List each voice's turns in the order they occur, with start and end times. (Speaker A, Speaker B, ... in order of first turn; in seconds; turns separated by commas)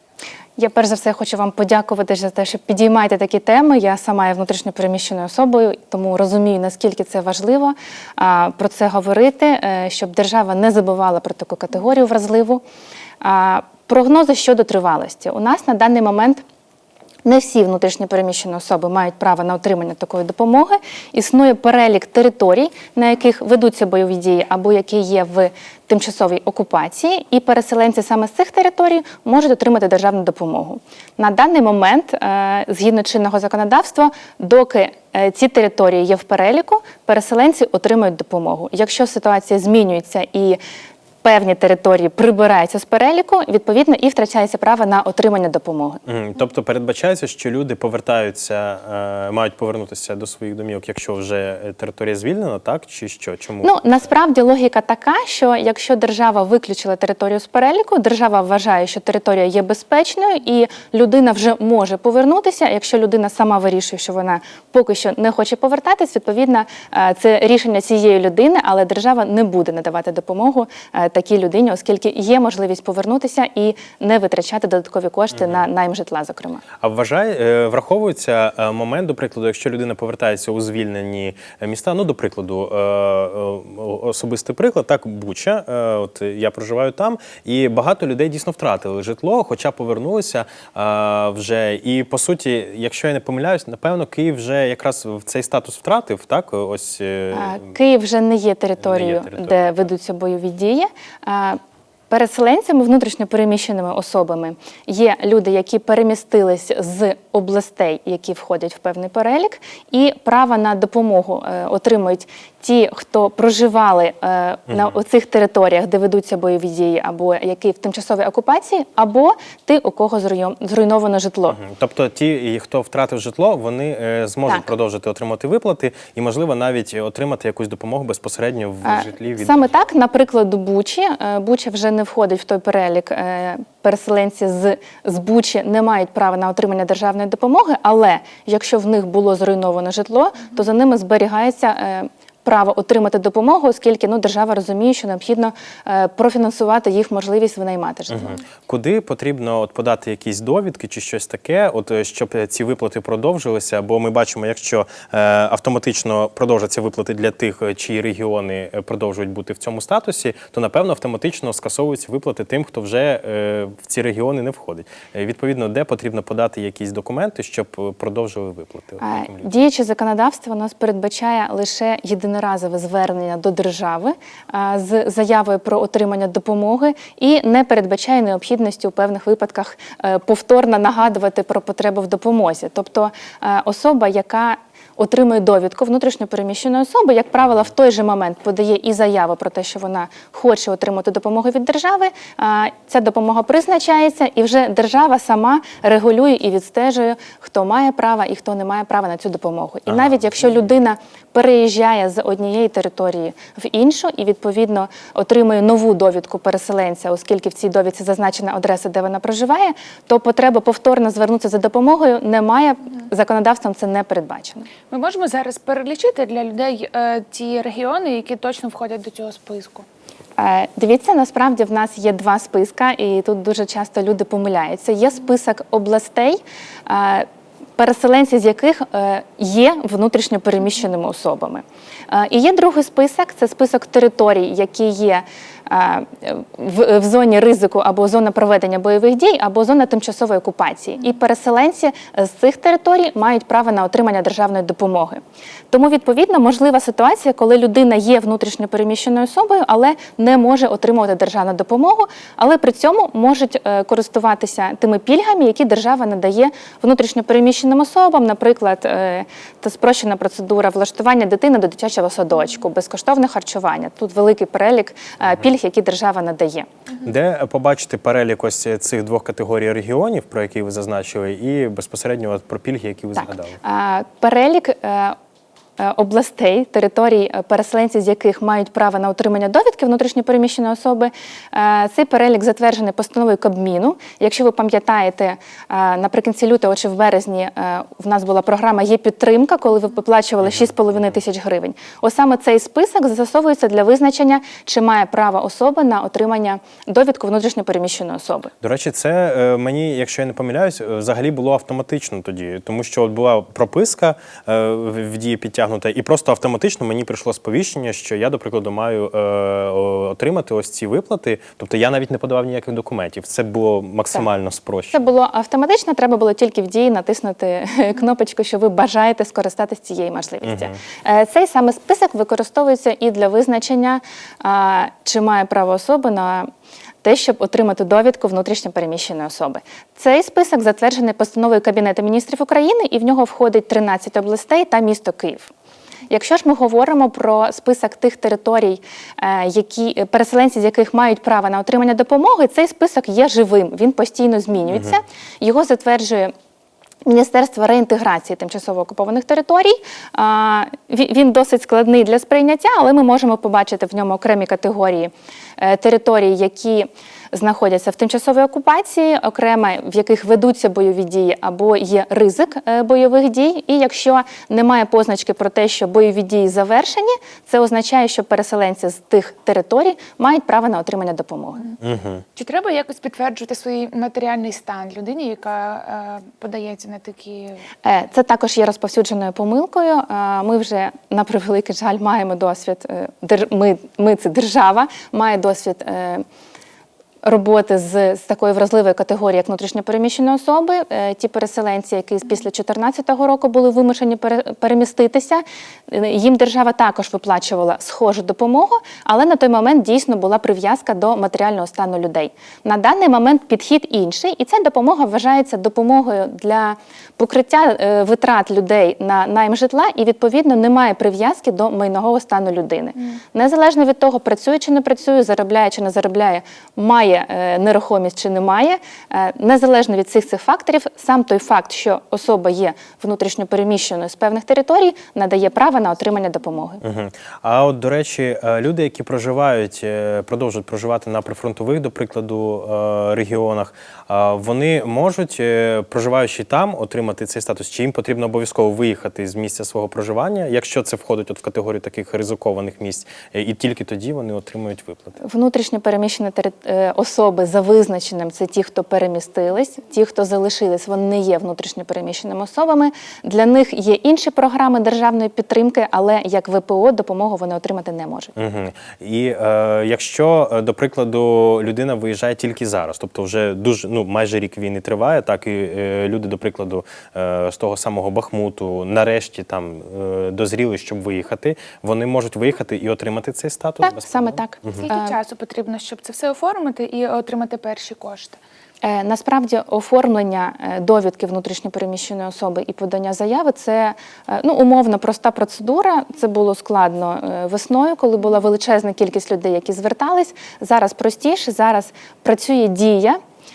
Speaker A: 0.6-12.6, Speaker A: 13.2-16.4, Speaker A: 17.2-40.6, Speaker A: 41.2-46.0, Speaker B: 46.1-53.8, Speaker A: 53.6-76.6, Speaker B: 76.8-97.7, Speaker A: 97.3-101.6, Speaker B: 98.8-99.9, Speaker A: 102.1-121.6, Speaker B: 121.5-129.6, Speaker A: 128.8-148.4, Speaker B: 148.1-169.5, Speaker A: 169.0-214.7, Speaker B: 199.9-200.2, Speaker C: 214.9-219.8, Speaker A: 220.4-227.2, Speaker A: 227.8-266.7, Speaker B: 267.0-273.6, Speaker A: 273.2-275.1, Speaker A: 275.8-298.5, Speaker B: 298.6-315.0, Speaker A: 314.9-326.5, Speaker B: 320.4-320.7, Speaker A: 327.0-335.5, Speaker A: 336.1-346.3, Speaker A: 347.0-371.7, Speaker B: 371.8-372.2, Speaker C: 372.4-377.6, Speaker A: 377.8-386.2, Speaker A: 387.2-426.8, Speaker B: 426.8-445.1, Speaker A: 445.2-458.3, Speaker B: 458.4-474.8, Speaker A: 473.8-475.1, Speaker C: 474.8-478.4, Speaker A: 478.8-493.2